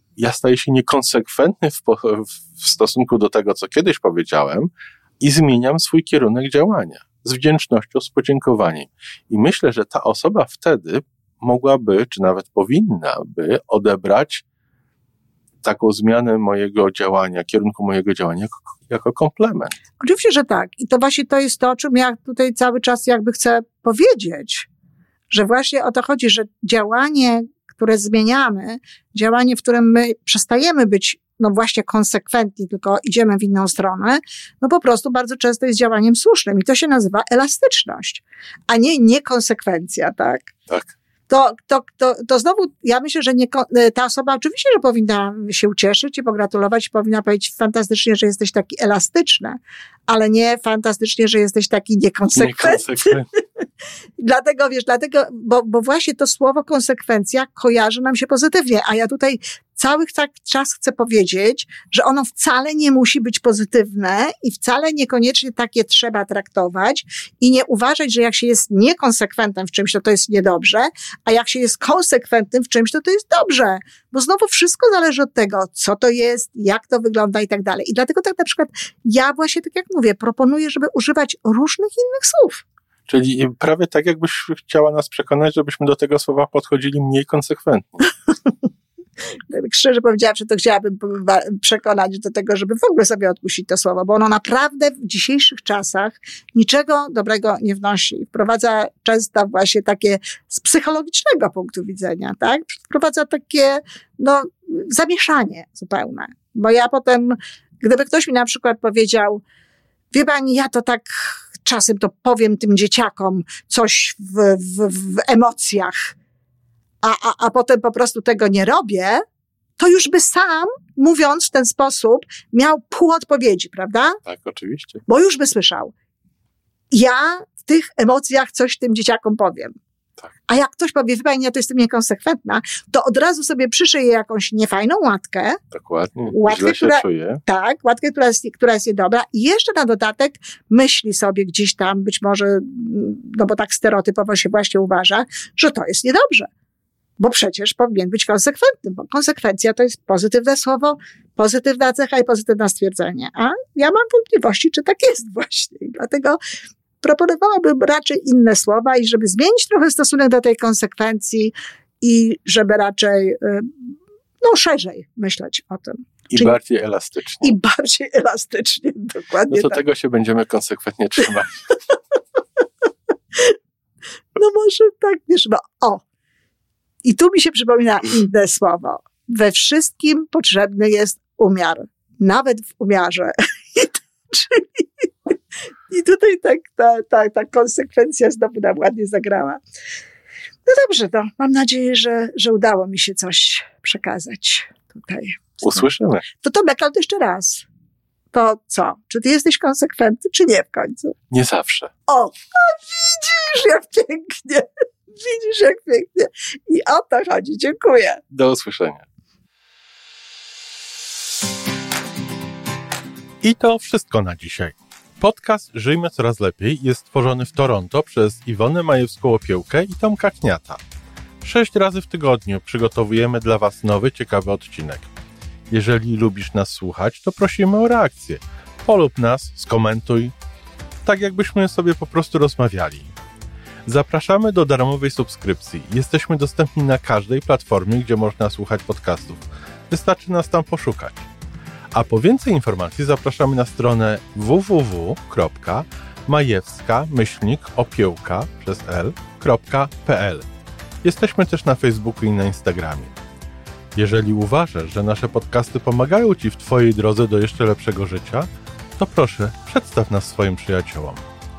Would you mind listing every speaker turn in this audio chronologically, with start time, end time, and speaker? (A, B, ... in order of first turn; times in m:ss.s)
0:00.2-0:14.4 A
0:15.6-0:19.7 A
0:20.0-0:24.7 B
0:25.3-0:40.5 B
0:40.7-0:40.9 A
0:41.3-0:53.1 B
0:52.3-0:53.3 A
0:54.2-1:22.6 B
1:23.1-1:28.1 A
1:29.5-1:49.4 B
1:50.1-1:56.1 B
1:57.0-1:59.2 B
1:59.8-2:04.2 B
2:04.2-2:05.0 A
2:05.0-2:05.9 B
2:06.9-2:09.8 B
2:10.5-2:15.6 B
2:15.7-2:17.4 A
2:16.3-2:26.5 B
2:27.2-2:36.4 B
2:37.0-2:46.6 B
2:46.3-2:47.5 A
2:47.4-2:49.8 B
2:49.5-2:51.7 A
2:54.4-2:56.0 B
2:57.0-3:05.3 B
3:05.9-3:09.6 B
3:10.6-3:15.8 B
3:15.6-3:16.2 A
3:16.4-3:17.6 B
3:18.3-3:21.1 B
3:21.3-3:21.9 A
3:22.1-3:28.2 B
3:28.3-3:29.0 A
3:33.4-3:40.8 A
3:41.4-3:45.1 A
3:45.7-3:50.3 A
3:51.0-3:53.1 A
3:53.8-4:01.3 A
4:01.9-4:10.5 A
4:11.0-4:13.1 A
4:14.0-4:21.2 A